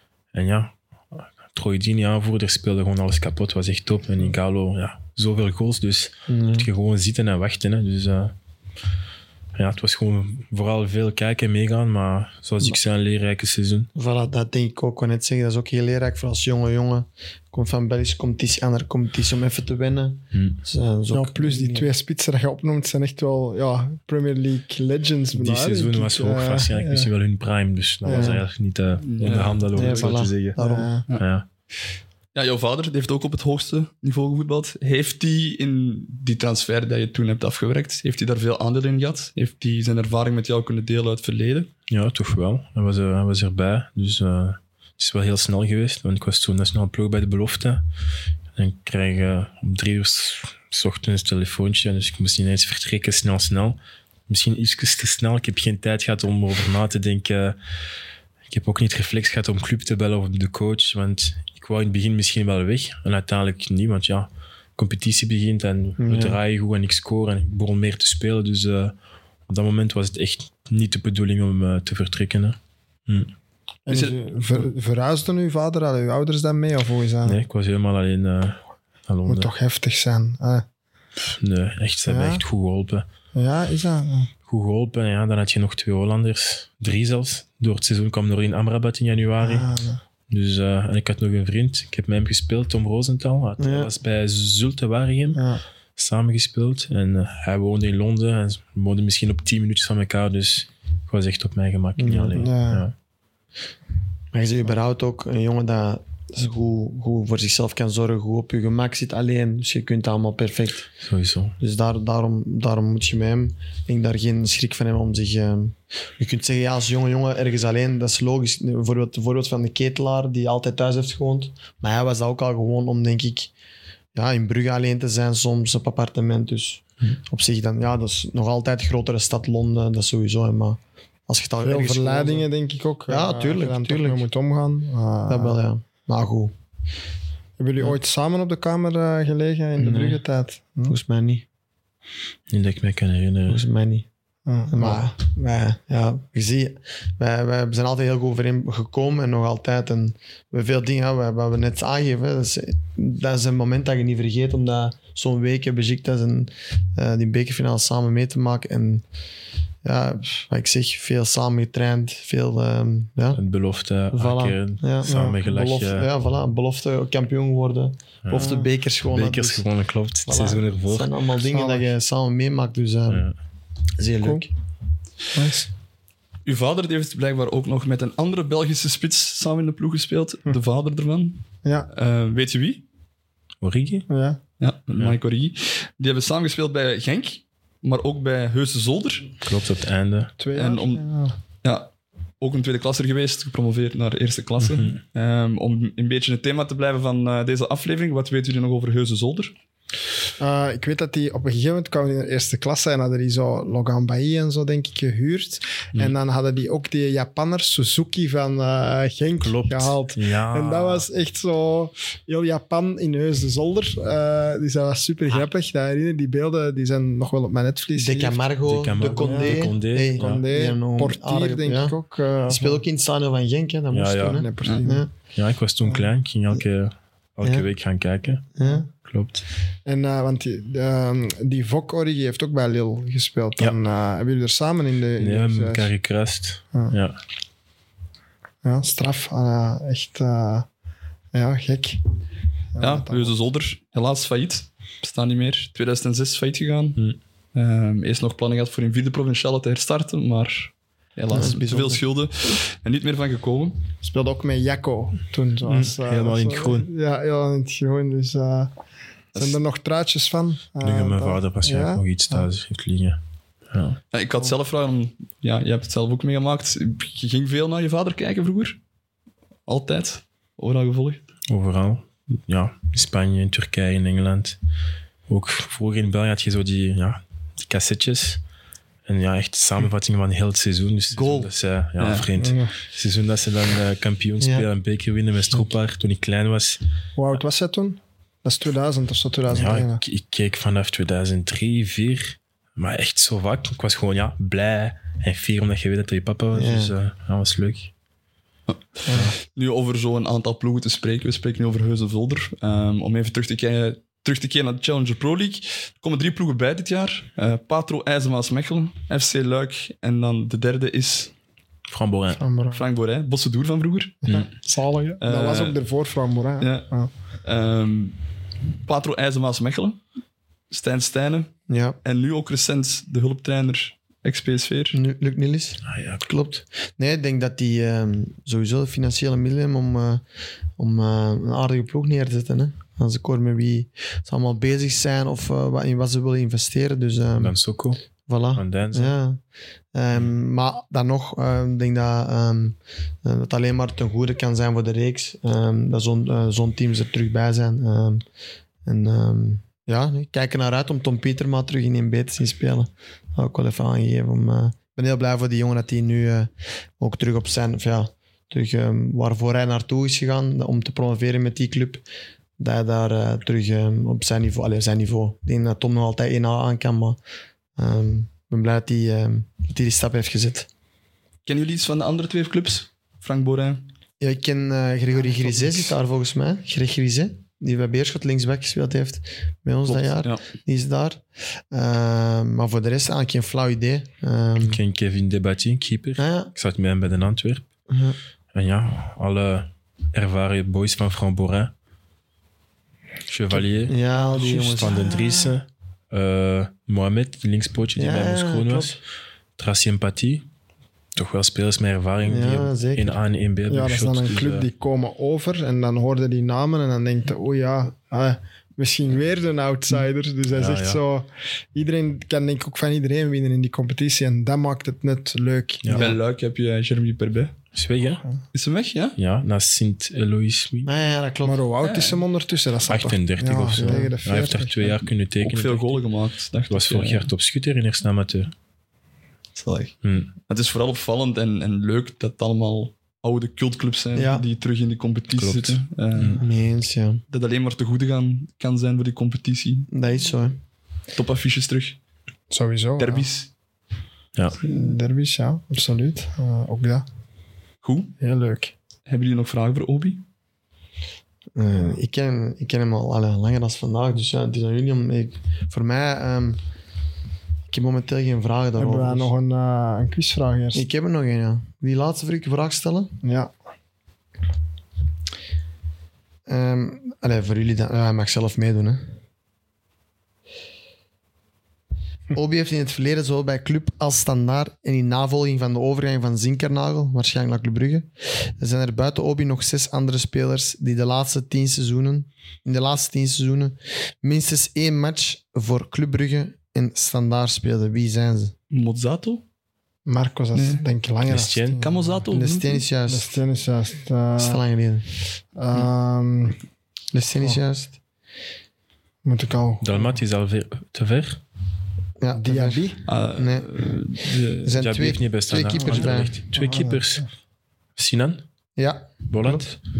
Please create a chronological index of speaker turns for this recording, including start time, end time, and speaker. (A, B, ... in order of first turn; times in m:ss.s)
0:00.3-0:08.3 A
0:06.3-0:06.7 B
0:09.5-0:13.9 A
0:13.9-0:21.9 B
0:20.3-0:20.6 A
0:21.1-0:27.1 C
0:25.3-0:30.6 A
0:28.0-0:28.4 C
0:28.1-0:28.4 B
0:29.0-0:30.0 D
0:29.7-0:30.9 B
0:30.6-0:31.0 C
0:31.2-0:31.4 A
0:32.3-0:41.7 D
0:41.9-0:47.8 A
0:48.6-0:57.6 A
0:58.5-1:08.9 A
1:06.1-1:06.4 B
1:09.5-1:13.3 A
1:13.8-1:17.4 C
1:13.9-1:14.2 D
1:17.2-1:19.5 A
1:19.3-1:20.6 C
1:21.3-1:23.0 A
1:22.1-1:22.4 C
1:23.3-1:24.3 C
1:24.4-1:29.7 A
1:29.4-1:30.0 C
1:30.3-1:35.4 A
1:33.6-1:33.9 B
1:35.3-1:35.6 C
1:36.0-1:42.9 A
1:42.0-1:42.4 B
1:42.3-1:42.8 C
1:44.3-1:50.9 B
1:51.0-1:51.5 A
1:51.6-2:03.5 B
2:04.1-2:12.5 B
2:11.6-2:15.6 C
2:13.1-2:14.2 B
2:15.3-2:16.5 B
2:17.6-2:21.0 C
2:19.8-2:20.2 B
2:20.8-2:21.4 B
2:22.5-2:23.6 A
2:23.5-2:24.1 B
2:24.5-2:25.1 C
2:24.7-2:39.0 B
2:39.8-2:43.4 B
2:43.4-2:46.1 A
2:44.1-2:49.6 B
2:45.0-2:45.4 C
2:48.2-2:51.1 A
2:48.3-2:48.6 C
2:50.2-2:53.3 B
2:51.4-2:51.9 C
2:53.1-2:53.3 A
2:54.0-2:54.5 B
2:54.2-2:54.5 C
2:55.3-2:55.7 C
2:56.4-3:02.8 D
3:01.6-3:01.9 C
3:03.6-3:04.1 A
3:04.1-3:04.4 C
3:04.6-3:09.3 D
3:09.4-3:10.3 A
3:10.4-3:11.4 C
3:10.5-3:19.5 D
3:14.6-3:15.0 A
3:20.4-3:38.4 C
3:29.4-3:31.1 A
3:38.0-3:45.1 B
3:38.6-3:40.4 A
3:39.0-3:42.8 C
3:43.9-3:44.5 A
3:44.2-3:45.1 C
3:44.6-3:44.9 D
3:45.3-3:49.4 A
3:48.6-3:48.9 B
3:49.8-3:55.9 C
3:55.2-3:57.2 A
3:58.6-4:00.7 C
4:01.3-4:02.0 C
4:02.7-4:03.3 C
4:02.8-4:07.0 D
4:07.5-4:13.8 D
4:11.3-4:12.0 B
4:14.0-4:18.7 C
4:15.6-4:16.9 A
4:19.4-4:22.5 C
4:20.8-4:24.0 A
4:24.1-4:28.8 D
4:29.6-4:31.2 D
4:31.5-4:34.6 A
4:35.3-4:38.4 A
4:39.0-4:46.8 A
4:41.1-4:41.5 B
4:42.0-4:42.2 D
4:42.4-4:42.7 C
4:44.4-4:44.6 B
4:47.2-4:50.0 C
4:49.5-4:57.9 A
4:56.5-4:56.9 B
4:58.7-5:11.3 D
4:59.1-4:59.3 C
5:11.9-5:12.4 A
5:12.4-5:12.8 C
5:12.7-5:14.2 D
5:14.2-5:17.1 C
5:15.2-5:15.8 D
5:16.6-5:18.3 D
5:18.8-5:20.0 D
5:20.7-5:25.0 D
5:21.7-5:22.0 B
5:24.9-5:30.2 B
5:25.9-5:26.2 A
5:30.8-5:37.6 B
5:37.4-5:38.0 A
5:38.3-5:39.4 B
5:38.5-5:39.1 A
5:39.9-5:48.2 B
5:48.8-6:02.0 B
6:02.6-6:07.2 B
6:07.8-6:10.7 B
6:11.4-6:13.8 D
6:14.2-6:24.8 B
6:15.4-6:15.9 D
6:19.8-6:20.4 D
6:24.6-6:27.7 A
6:26.2-6:26.5 B
6:27.9-6:28.2 B
6:28.5-6:31.7 A
6:33.3-6:39.0 A
6:33.8-6:35.6 B
6:38.0-6:39.0 B
6:39.6-6:40.4 A
6:41.2-6:44.7 A
6:42.2-6:43.2 B
6:43.7-6:56.1 C
6:50.5-6:51.0 A
6:55.8-6:56.1 A
6:55.9-6:57.6 D
6:57.7-6:58.2 A
6:58.5-6:59.2 D
6:59.2-7:00.9 A
7:00.8-7:01.6 B
7:01.4-7:05.0 C
7:01.8-7:02.2 D
7:02.9-7:06.0 A
7:03.8-7:04.1 B
7:05.4-7:07.3 D
7:06.7-7:08.5 A
7:09.5-7:16.4 D
7:10.0-7:10.3 A
7:14.1-7:14.4 B
7:15.4-7:16.4 A
7:16.4-7:17.2 B
7:17.3-7:19.9 D
7:19.9-7:20.6 B
7:21.1-7:22.0 D
7:22.5-7:23.3 C
7:23.0-7:23.5 D
7:24.3-7:24.6 A
7:24.6-7:27.0 C
7:27.8-7:28.1 D
7:28.2-7:28.7 C
7:29.0-7:30.2 D
7:31.5-7:36.6 B
7:37.7-7:39.3 B
7:38.8-7:40.8 C
7:40.7-7:43.1 B
7:43.2-7:43.5 C
7:46.5-7:49.1 B
7:52.3-8:08.5 B
8:08.7-8:09.4 D
8:10.0-8:12.0 C
8:10.5-8:10.8 D
8:11.2-8:11.8 A
8:11.8-8:12.8 D
8:12.3-8:13.3 B
8:13.1-8:14.6 C
8:14.4-8:15.0 B
8:15.5-8:16.6 C
8:17.1-8:18.0 B
8:19.2-8:20.1 C
8:19.8-8:21.4 A
8:22.2-8:23.9 B
8:22.3-8:23.0 C
8:23.1-8:24.8 D
8:24.6-8:26.4 B
8:24.7-8:27.2 A
8:25.7-8:27.2 C
8:28.0-8:28.4 A
8:28.8-8:29.7 B
8:29.3-8:29.8 A